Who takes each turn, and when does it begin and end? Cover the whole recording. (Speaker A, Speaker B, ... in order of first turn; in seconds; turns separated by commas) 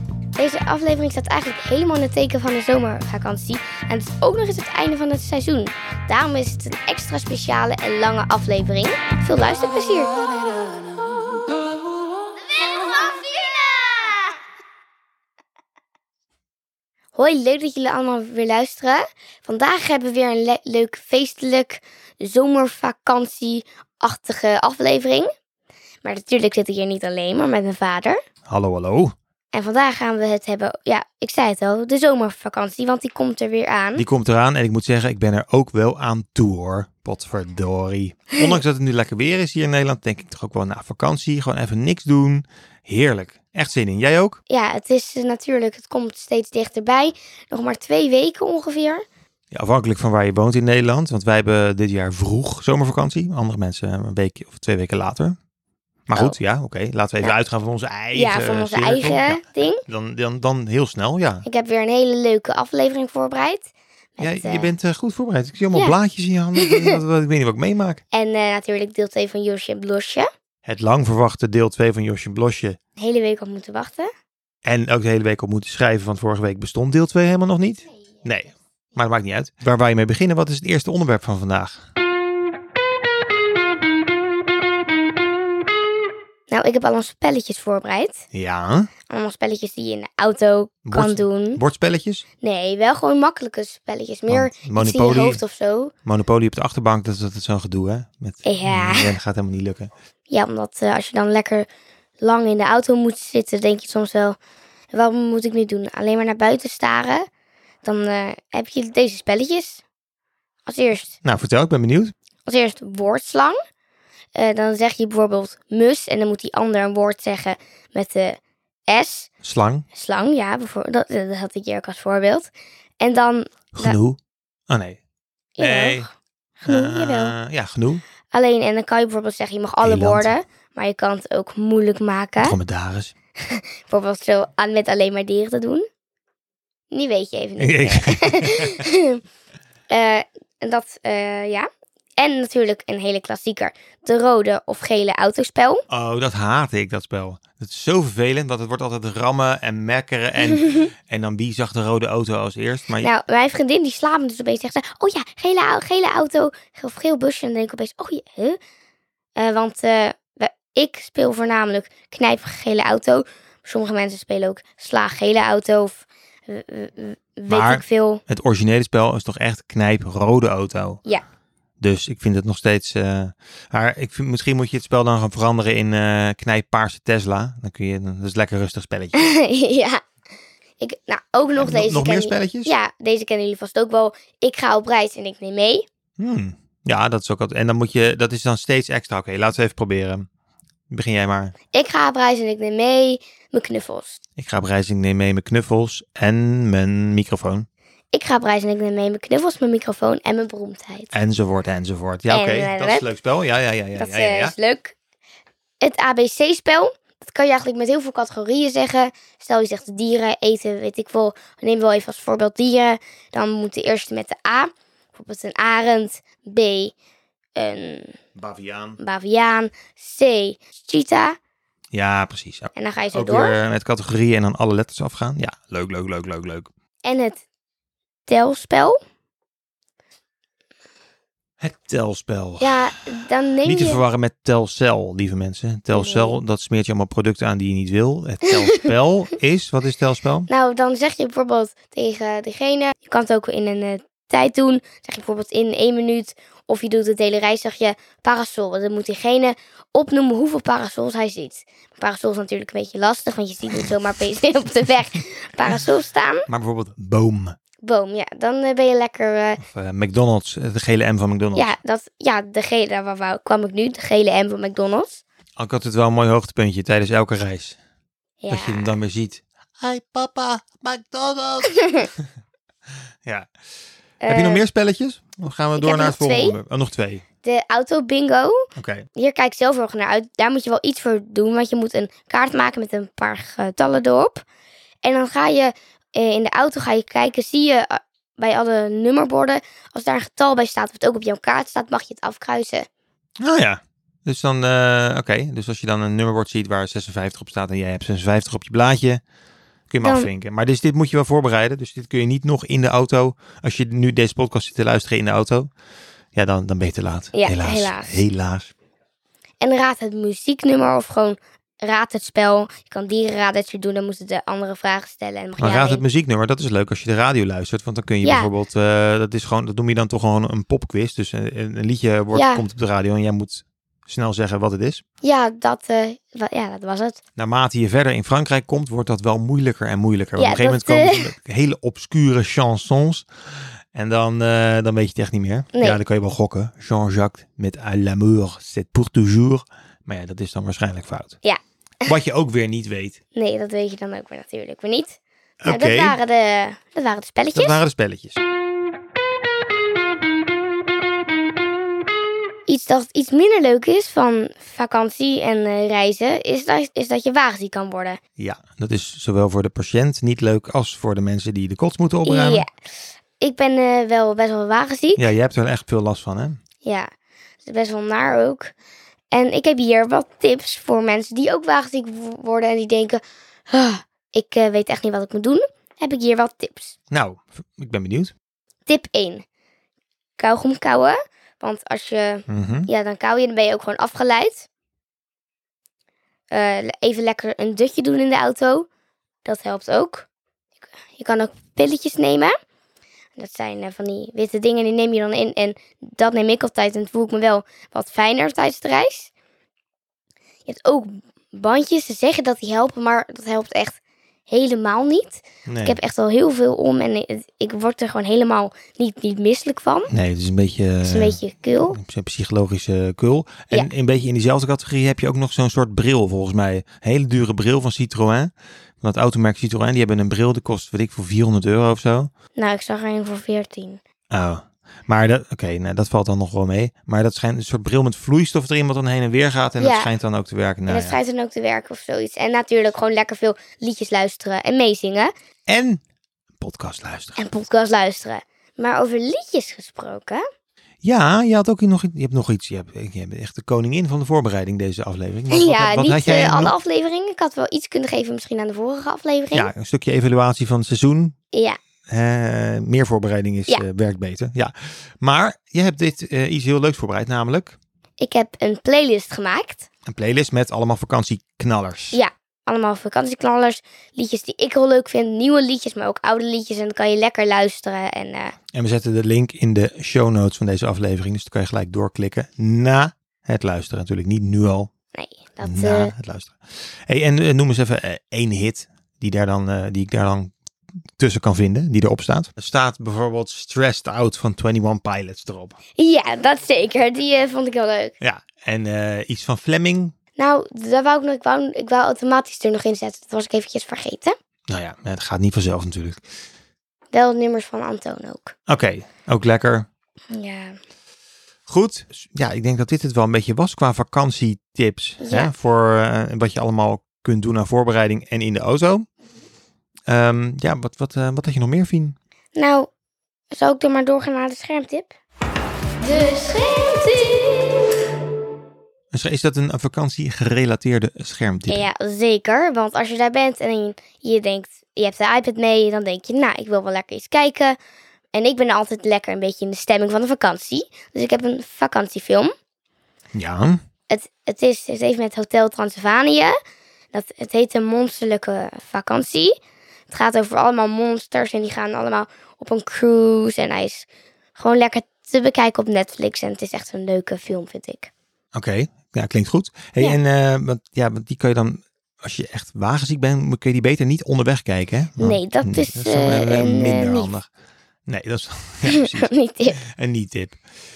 Speaker A: 0.3-10.1, Speaker A: 12.6-14.2, Speaker A: 17.1-25.3, Speaker A: 26.0-28.2, Speaker B: 28.5-29.1, Speaker A: 29.5-34.1, Speaker B: 34.0-44.4, Speaker A: 44.5-49.0, Speaker B: 49.5-55.4, Speaker B: 56.1-61.5, Speaker A: 58.1-59.8, Speaker A: 61.5-64.7, Speaker B: 64.2-68.0, Speaker A: 66.6-67.0, Speaker A: 68.1-70.3, Speaker B: 70.7-72.8, Speaker A: 73.0-74.1, Speaker B: 74.7-81.8, Speaker A: 86.5-88.2, Speaker B: 88.3-88.9, Speaker A: 89.1-91.6, Speaker B: 90.9-92.2, Speaker A: 92.4-95.9, Speaker B: 94.3-95.4, Speaker B: 96.0-99.9, Speaker A: 98.4-99.2, Speaker A: 100.3-101.7, Speaker A: 102.2-104.4, Speaker A: 104.9-107.3, Speaker A: 107.8-109.8, Speaker A: 110.7-111.2, Speaker B: 111.2-112.1, Speaker A: 112.5-113.6, Speaker A: 114.3-119.3, Speaker B: 119.4-119.9, Speaker A: 119.9-124.0, Speaker B: 123.7-124.2, Speaker B: 124.7-125.0, Speaker A: 125.6-126.1, Speaker B: 125.6-126.1, Speaker A: 126.6-127.3, Speaker B: 126.7-128.0, Speaker A: 128.3-132.6, Speaker B: 129.8-130.3, Speaker B: 132.4-133.1, Speaker A: 133.4-135.8, Speaker A: 136.9-139.2, Speaker B: 137.6-138.8, Speaker A: 139.9-145.8, Speaker B: 145.9-153.1, Speaker A: 153.0-158.6, Speaker A: 159.4-168.2, Speaker B: 167.5-171.0, Speaker B: 171.8-179.3, Speaker A: 179.1-180.0, Speaker A: 180.8-185.8, Speaker B: 181.6-182.7, Speaker B: 186.2-190.3, Speaker B: 190.9-191.5, Speaker A: 191.7-194.2, Speaker B: 194.4-197.7, Speaker A: 198.1-201.1, Speaker B: 201.1-204.5, Speaker A: 202.3-203.1, Speaker A: 204.0-205.0, Speaker A: 205.8-216.9, Speaker A: 217.6-218.2, Speaker B: 218.4-219.0, Speaker A: 219.0-221.4, Speaker B: 221.9-226.7, Speaker A: 222.7-223.6, Speaker A: 227.0-227.4, Speaker A: 228.3-229.0, Speaker B: 231.6-232.8, Speaker A: 232.6-234.0, Speaker B: 233.7-240.5, Speaker A: 235.9-236.4, Speaker A: 240.5-256.5, Speaker B: 256.5-257.6, Speaker A: 257.8-259.6, Speaker B: 259.6-261.8, Speaker A: 261.6-265.2, Speaker B: 265.6-267.8, Speaker A: 268.4-268.9, Speaker B: 268.5-272.2, Speaker A: 271.8-272.1, Speaker A: 274.2-274.6, Speaker B: 274.3-277.2, Speaker A: 275.8-276.6, Speaker A: 277.4-278.6, Speaker B: 278.8-279.1, Speaker A: 279.2-284.4, Speaker A: 285.0-292.9, Speaker B: 293.4-299.2, Speaker B: 299.9-305.7, Speaker A: 300.0-300.3, Speaker B: 306.4-308.7, Speaker A: 307.3-308.2, Speaker A: 309.6-316.0, Speaker B: 315.6-325.0, Speaker A: 318.2-318.5, Speaker A: 322.3-322.6, Speaker A: 325.2-327.2, Speaker B: 327.4-333.3, Speaker A: 330.4-331.3, Speaker B: 333.9-341.4, Speaker B: 342.1-343.2, Speaker A: 343.4-347.8, Speaker B: 345.6-346.2, Speaker B: 347.5-348.4, Speaker A: 352.7-358.2, Speaker B: 358.4-362.6, Speaker A: 362.3-362.7, Speaker A: 363.4-365.3, Speaker B: 365.2-366.6, Speaker A: 366.8-367.1, Speaker A: 367.6-368.7, Speaker A: 369.3-377.0, Speaker B: 377.1-378.3, Speaker A: 378.9-379.4, Speaker A: 380.4-384.7, Speaker B: 382.5-382.9, Speaker A: 386.5-388.9, Speaker A: 389.4-390.3, Speaker A: 391.1-392.5, Speaker A: 393.4-399.3, Speaker A: 400.7-410.1, Speaker B: 405.7-406.0, Speaker B: 410.1-411.4, Speaker A: 411.0-412.0, Speaker B: 411.9-422.3, Speaker A: 422.6-424.0, Speaker B: 424.3-431.2, Speaker A: 429.8-430.1, Speaker A: 430.9-435.3, Speaker B: 435.7-436.0, Speaker B: 436.6-437.4, Speaker A: 437.4-440.4, Speaker B: 441.0-446.7, Speaker A: 445.5-449.7, Speaker B: 449.5-451.3, Speaker A: 451.5-451.8, Speaker B: 452.1-457.8, Speaker A: 458.2-459.9, Speaker B: 460.1-462.2, Speaker A: 462.1-468.6, Speaker B: 468.7-474.9, Speaker A: 475.1-476.1, Speaker B: 475.6-480.5, Speaker B: 481.2-485.8, Speaker A: 486.0-488.1, Speaker B: 488.2-490.1, Speaker A: 490.4-494.4, Speaker B: 494.7-496.2, Speaker A: 497.1-498.5, Speaker B: 498.7-499.9, Speaker A: 500.3-500.8, Speaker B: 501.7-509.1, Speaker A: 505.2-505.5, Speaker B: 510.1-512.1, Speaker A: 512.5-512.9, Speaker A: 513.5-515.1, Speaker A: 516.0-517.7, Speaker B: 519.1-521.8, Speaker A: 521.7-527.8, Speaker A: 528.3-532.5, Speaker B: 533.4-533.8, Speaker A: 534.1-536.6, Speaker A: 537.1-539.5, Speaker A: 540.1-548.1, Speaker B: 548.5-557.5, Speaker A: 555.2-557.3, Speaker B: 558.1-559.3, Speaker A: 558.9-559.8, Speaker B: 560.0-560.6